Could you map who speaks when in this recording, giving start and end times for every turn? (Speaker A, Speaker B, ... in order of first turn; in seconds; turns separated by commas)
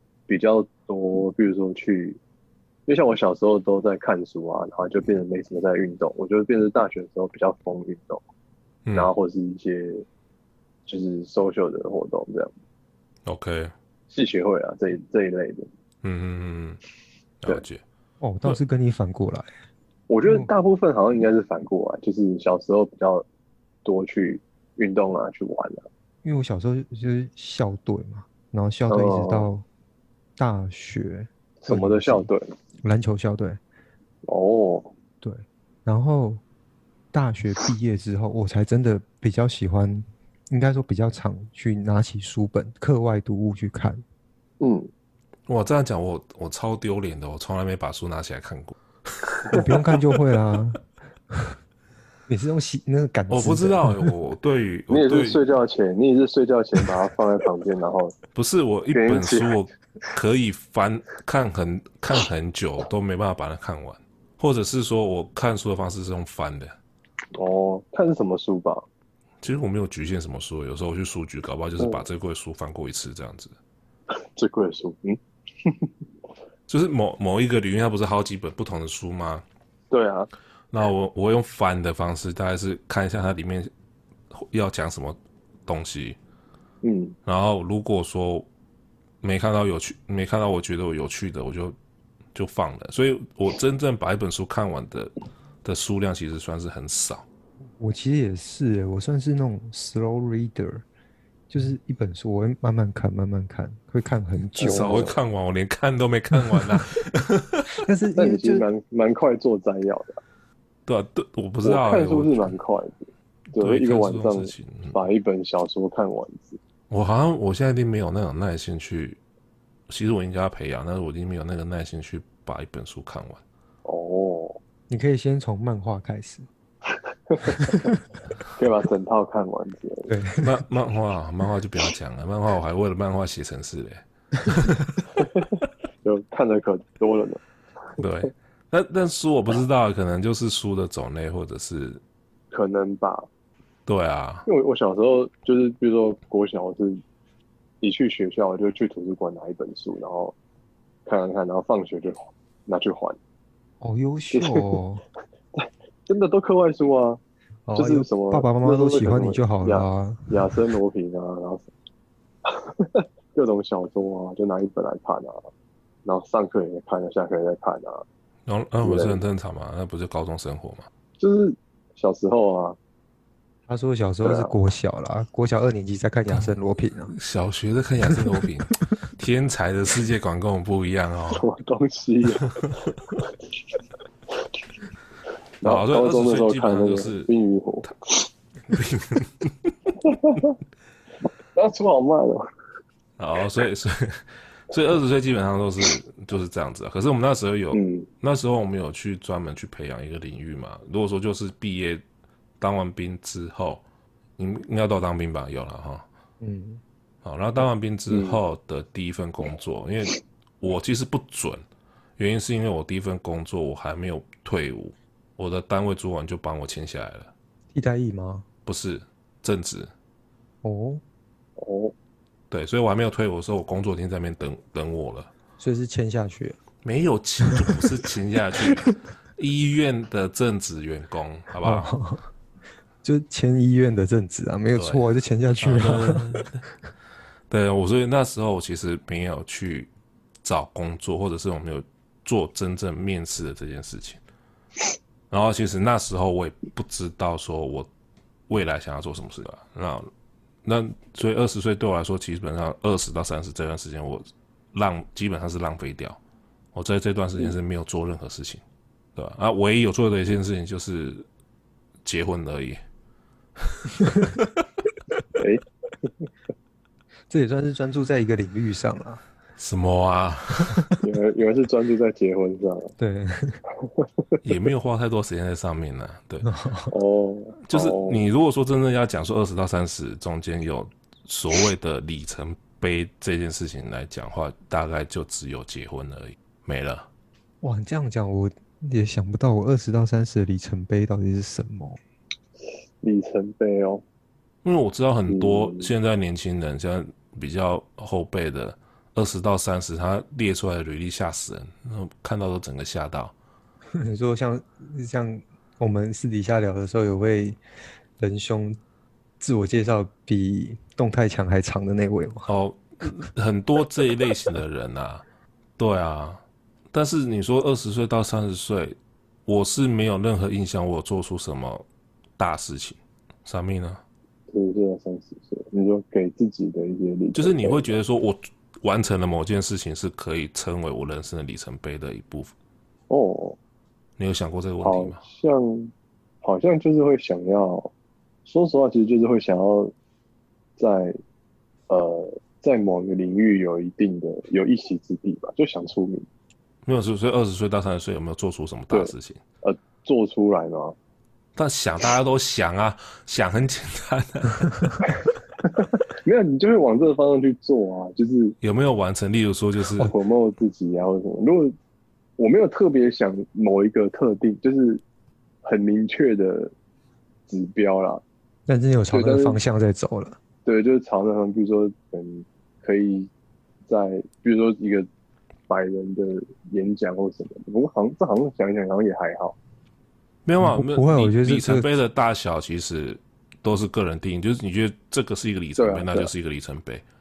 Speaker A: 0.3-2.2, Speaker A: 2.9-8.2, Speaker B: 8.8-9.1, Speaker A: 8.9-10.0, Speaker A: 10.9-12.5, Speaker B: 13.2-13.7, Speaker A: 14.1-15.7, Speaker B: 16.0-16.8, Speaker B: 17.4-17.8, Speaker C: 18.2-19.5, Speaker A: 20.1-23.2, Speaker A: 23.8-25.9, Speaker C: 26.2-29.6, Speaker A: 28.9-29.5, Speaker C: 30.4-32.3, Speaker A: 31.6-32.5, Speaker C: 32.8-33.6, Speaker A: 34.2-34.9, Speaker C: 35.2-36.4, Speaker C: 37.1-44.0, Speaker A: 44.6-44.9, Speaker B: 45.5-49.6, Speaker A: 49.5-49.8, Speaker C: 49.5-51.5, Speaker C: 52.3-54.1, Speaker B: 53.3-55.4, Speaker A: 54.9-58.1, Speaker B: 58.3-66.7, Speaker A: 58.9-59.5, Speaker A: 67.3-68.8, Speaker B: 69.4-73.5, Speaker A: 74.1-75.9, Speaker B: 76.7-79.4, Speaker A: 79.9-80.3, Speaker B: 80.7-83.7, Speaker B: 84.3-86.2, Speaker A: 86.8-87.2, Speaker B: 87.2-88.5, Speaker B: 89.2-91.8, Speaker B: 92.3-95.1, Speaker B: 95.6-97.2, Speaker C: 97.8-100.8, Speaker C: 101.5-105.1, Speaker A: 104.6-105.2, Speaker B: 104.6-107.8, Speaker C: 106.3-106.8, Speaker C: 107.8-108.6, Speaker A: 108.2-110.2, Speaker B: 110.9-112.5, Speaker A: 111.6-116.6, Speaker B: 113.5-115.0, Speaker B: 116.9-119.2, Speaker B: 119.9-123.4, Speaker A: 123.8-124.6, Speaker C: 124.9-126.5, Speaker A: 126.9-127.8, Speaker C: 127.5-128.0, Speaker A: 128.5-130.2, Speaker C: 130.1-130.6, Speaker B: 130.4-135.0, Speaker A: 135.2-137.4, Speaker B: 138.0-142.0, Speaker A: 142.5-143.3, Speaker B: 143.9-144.4, Speaker A: 144.4-147.0, Speaker A: 147.8-150.3, Speaker A: 151.1-153.2, Speaker C: 153.8-155.0, Speaker A: 154.3-154.8, Speaker A: 155.5-157.2, Speaker C: 157.7-160.5, Speaker A: 157.8-161.7, Speaker A: 162.4-165.5, Speaker A: 166.0-168.0, Speaker B: 168.5-170.9, Speaker A: 168.8-169.2, Speaker A: 171.2-172.8, Speaker C: 173.7-177.1, Speaker A: 174.2-174.5, Speaker B: 177.1-181.4, Speaker A: 181.3-183.3, Speaker A: 185.6-188.3, Speaker B: 185.6-187.3, Speaker B: 188.7-189.7, Speaker A: 190.0-190.6, Speaker A: 191.5-192.4, Speaker B: 193.2-202.0, Speaker A: 197.7-198.1, Speaker B: 202.6-203.8, Speaker B: 204.4-206.1, Speaker C: 206.4-206.8, Speaker B: 207.2-211.6, Speaker A: 208.1-208.4, Speaker B: 212.2-217.3, Speaker C: 217.7-218.4, Speaker B: 218.7-219.9, Speaker C: 220.6-221.0, Speaker A: 221.6-221.9, Speaker B: 222.5-225.3, Speaker C: 225.6-226.6, Speaker B: 226.8-231.9, Speaker C: 231.6-232.2, Speaker C: 233.0-236.5, Speaker B: 234.8-235.0, Speaker B: 235.6-236.6, Speaker B: 237.5-239.9, Speaker B: 240.4-244.2, Speaker B: 245.3-247.9, Speaker B: 248.5-250.1, Speaker B: 250.6-256.2, Speaker B: 256.7-258.6, Speaker B: 259.1-261.2, Speaker B: 262.0-262.8, Speaker B: 263.7-264.5, Speaker A: 265.4-266.3, Speaker C: 267.3-269.2, Speaker B: 269.6-271.0, Speaker A: 271.0-272.9, Speaker C: 273.0-273.6, Speaker A: 273.8-274.3, Speaker B: 274.4-276.5, Speaker C: 276.4-276.9, Speaker A: 276.9-278.2, Speaker B: 277.6-287.1, Speaker C: 287.6-292.0, Speaker A: 293.0-294.0, Speaker B: 294.6-303.3, Speaker A: 295.3-295.9, Speaker C: 304.0-307.6, Speaker C: 308.2-308.8, Speaker C: 309.4-312.5, Speaker B: 312.5-315.2, Speaker B: 315.8-316.4, Speaker B: 316.9-318.9, Speaker B: 319.5-321.8, Speaker B: 322.4-324.0, Speaker A: 324.5-328.0, Speaker B: 327.3-332.5, Speaker A: 333.1-333.6, Speaker B: 334.2-335.2, Speaker A: 334.8-335.9, Speaker A: 336.4-337.9, Speaker A: 338.4-339.9, Speaker A: 340.8-341.2, Speaker A: 341.9-346.3, Speaker B: 346.9-349.4, Speaker A: 348.9-350.9, Speaker B: 351.6-355.1, Speaker A: 355.6-358.6, Speaker B: 358.6-360.1, Speaker A: 360.0-361.7, Speaker A: 362.4-365.0, Speaker A: 365.6-366.7, Speaker A: 367.5-368.2, Speaker C: 368.7-370.4, Speaker A: 369.1-369.6, Speaker A: 370.6-373.3, Speaker A: 373.9-375.1, Speaker A: 375.7-379.6, Speaker B: 380.4-387.0, Speaker C: 380.6-381.9, Speaker A: 385.8-386.3